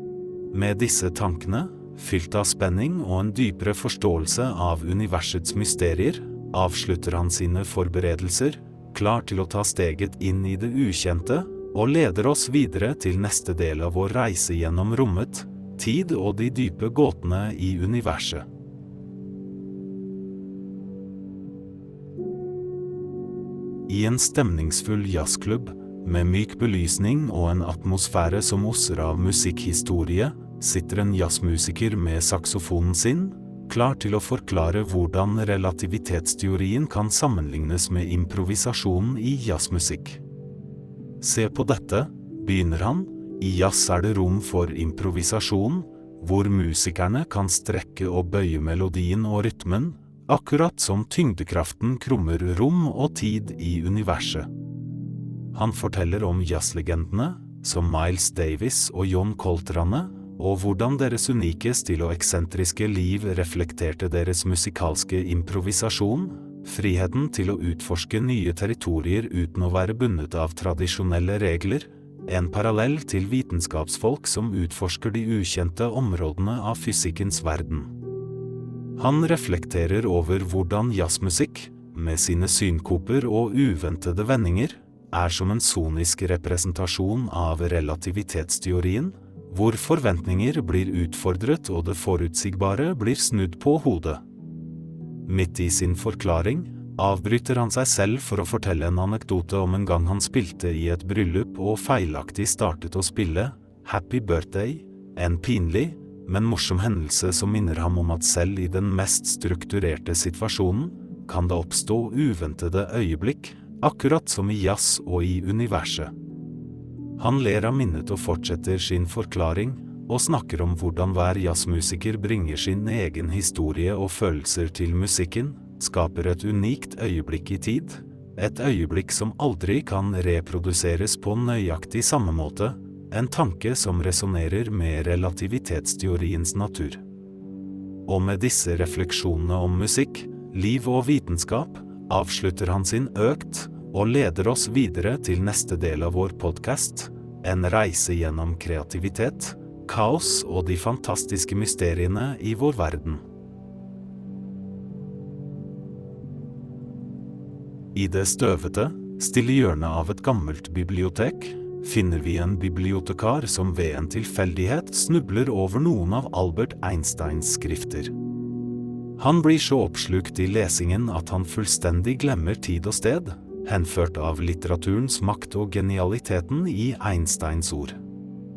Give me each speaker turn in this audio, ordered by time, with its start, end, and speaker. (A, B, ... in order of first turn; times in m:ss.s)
0:00.5-0:18.5 A
0:23.9-0:40.2 A
0:41.2-0:54.5 A
0:55.5-1:17.9 A
1:19.0-1:34.2 A
1:35.3-1:56.1 A
1:57.2-2:17.0 A
2:18.1-2:33.2 A
2:38.0-2:48.1 A
2:49.2-2:58.0 A